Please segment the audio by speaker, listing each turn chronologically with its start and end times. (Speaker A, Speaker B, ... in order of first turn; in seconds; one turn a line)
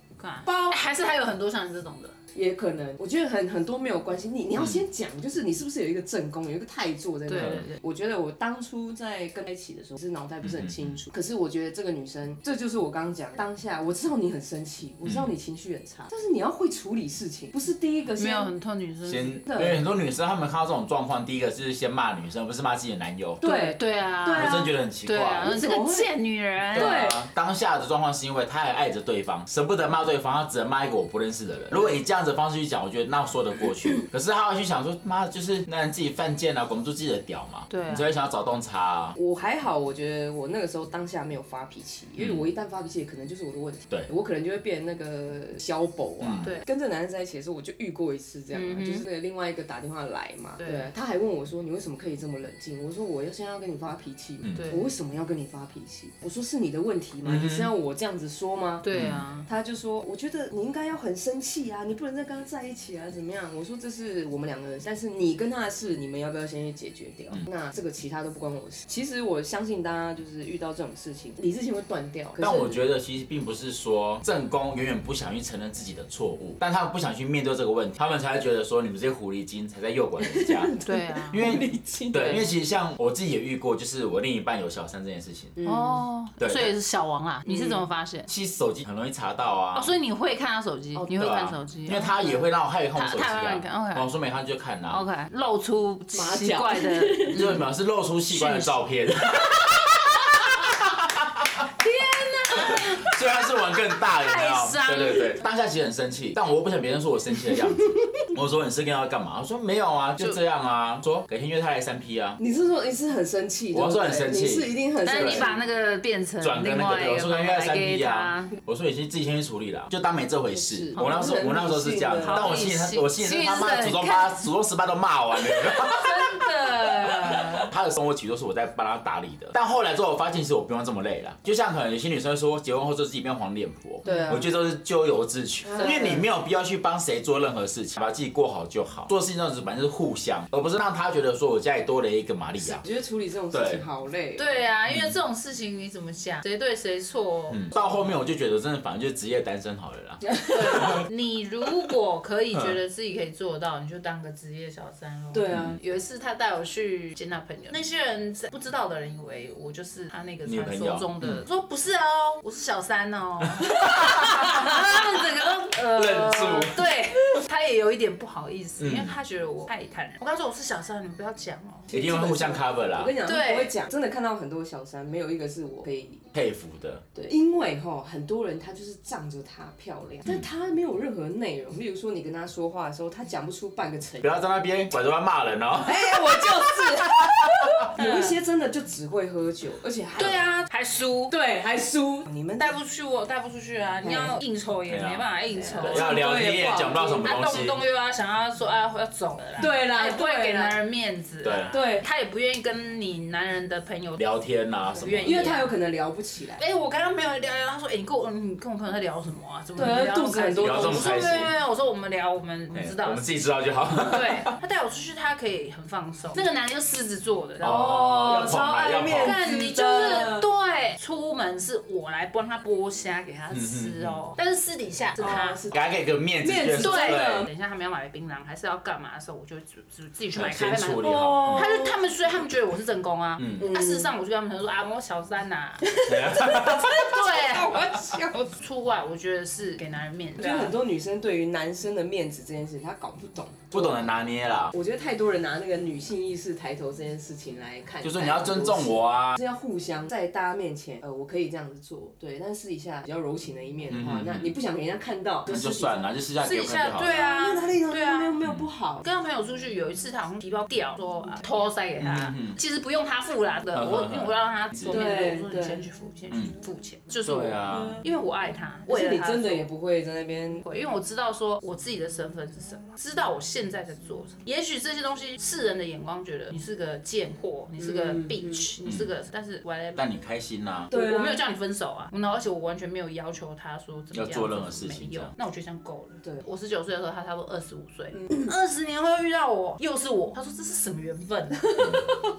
Speaker A: 0.2-2.1
Speaker B: 2.3-18.5
Speaker C: 4.6-4.8
Speaker A: 7.3-7.8
Speaker C: 7.4-7.6
Speaker C: 10.4-10.9
Speaker C: 15.1-15.3
Speaker A: 18.2-19.4
Speaker C: 19.1-23.4
Speaker B: 19.5-19.9
Speaker B: 23.4-24.8
Speaker A: 23.4-27.1
Speaker C: 24.4-25.6
Speaker B: 25.4-26.1
Speaker B: 26.7-27.3
Speaker C: 26.8-39.1
Speaker A: 37.7-38.1
Speaker B: 39.1-58.9
Speaker C: 42.2-42.5
Speaker C: 46.2-46.5
Speaker A: 46.4-46.7
Speaker A: 48.5-49.0
Speaker A: 50.6-50.9
Speaker A: 54.5-54.9
Speaker C: 57.3-57.7
Speaker A: 58.8-59.5
Speaker C: 58.9-59.2
Speaker B: 59.5-72.8
Speaker C: 72.4-80.8
Speaker B: 80.2-82.5
Speaker A: 80.8-81.4
Speaker C: 81.3-85.6
Speaker B: 85.6-86.0
Speaker A: 85.6-88.3
Speaker C: 86.4-86.7
Speaker B: 87.5-87.8
Speaker C: 88.3-89.9
Speaker A: 89.7-94.1
Speaker C: 91.2-95.1
Speaker A: 94.9-97.6
Speaker B: 96.1-97.6
Speaker C: 97.3-101.7
Speaker A: 98.3-98.8
Speaker A: 101.8-105.4
Speaker C: 102.6-112.4
Speaker B: 112.4-115.5
Speaker C: 113.7-115.6
Speaker A: 115.0-118.5
Speaker C: 116.4-126.3
Speaker B: 120.5-122.5
Speaker A: 122.2-124.4
Speaker A: 125.4-127.7
Speaker C: 126.8-142.8
Speaker A: 134.0-134.4
Speaker B: 134.0-134.5
Speaker B: 135.6-136.3
Speaker B: 142.7-144.6
Speaker C: 143.5-143.8
Speaker A: 144.4-148.1
Speaker C: 144.9-145.2
Speaker C: 147.5-151.0
Speaker B: 150.3-151.0
Speaker A: 150.5-171.9
Speaker B: 155.3-155.8
Speaker C: 155.5-155.8
Speaker C: 160.4-161.4
Speaker C: 163.6-167.4
Speaker C: 168.8-169.1
Speaker B: 171.9-176.3
Speaker C: 171.9-173.1
Speaker A: 173.2-173.8
Speaker C: 176.3-177.0
Speaker B: 177.1-184.3
Speaker C: 184.2-187.9
Speaker B: 185.8-190.5
Speaker A: 187.9-188.4
Speaker A: 190.2-191.3
Speaker B: 191.3-192.8
Speaker A: 192.6-196.2
Speaker B: 194.0-194.4
Speaker C: 194.9-195.2
Speaker B: 195.5-197.5
Speaker C: 195.8-197.8
Speaker A: 197.2-204.2
Speaker B: 199.6-200.8
Speaker C: 201.4-201.7
Speaker B: 201.7-202.1
Speaker C: 204.2-205.5
Speaker A: 204.9-205.7
Speaker B: 205.1-206.6
Speaker A: 206.6-213.2
Speaker B: 209.8-211.1
Speaker C: 210.6-211.5
Speaker C: 212.7-214.5
Speaker A: 214.0-217.8
Speaker C: 217.6-219.4
Speaker B: 217.6-220.5
Speaker A: 219.1-225.6
Speaker C: 223.5-224.2
Speaker B: 225.2-225.8
Speaker C: 225.2-227.5
Speaker B: 226.4-227.5
Speaker A: 226.8-240.8
Speaker C: 230.3-231.6
Speaker B: 231.0-232.0
Speaker C: 233.4-233.7
Speaker B: 233.6-234.1
Speaker B: 235.8-238.5
Speaker C: 236.1-237.1
Speaker B: 240.4-244.2
Speaker C: 243.7-244.8
Speaker B: 244.7-256.1
Speaker C: 248.0-249.4
Speaker C: 253.9-254.6
Speaker C: 255.5-257.1
Speaker A: 256.4-258.4
Speaker B: 256.9-259.0
Speaker C: 258.4-258.7
Speaker A: 259.0-269.7
Speaker C: 262.0-262.6
Speaker C: 263.7-265.1
Speaker B: 264.9-265.8
Speaker C: 267.2-268.0
Speaker B: 267.7-268.1
Speaker B: 268.9-270.6
Speaker A: 270.6-280.1
Speaker B: 277.8-278.7
Speaker C: 278.9-279.1
Speaker C: 280.0-280.9
Speaker A: 280.9-292.1
Speaker B: 280.9-281.4
Speaker C: 284.1-285.3
Speaker B: 288.1-288.5
Speaker C: 291.8-292.0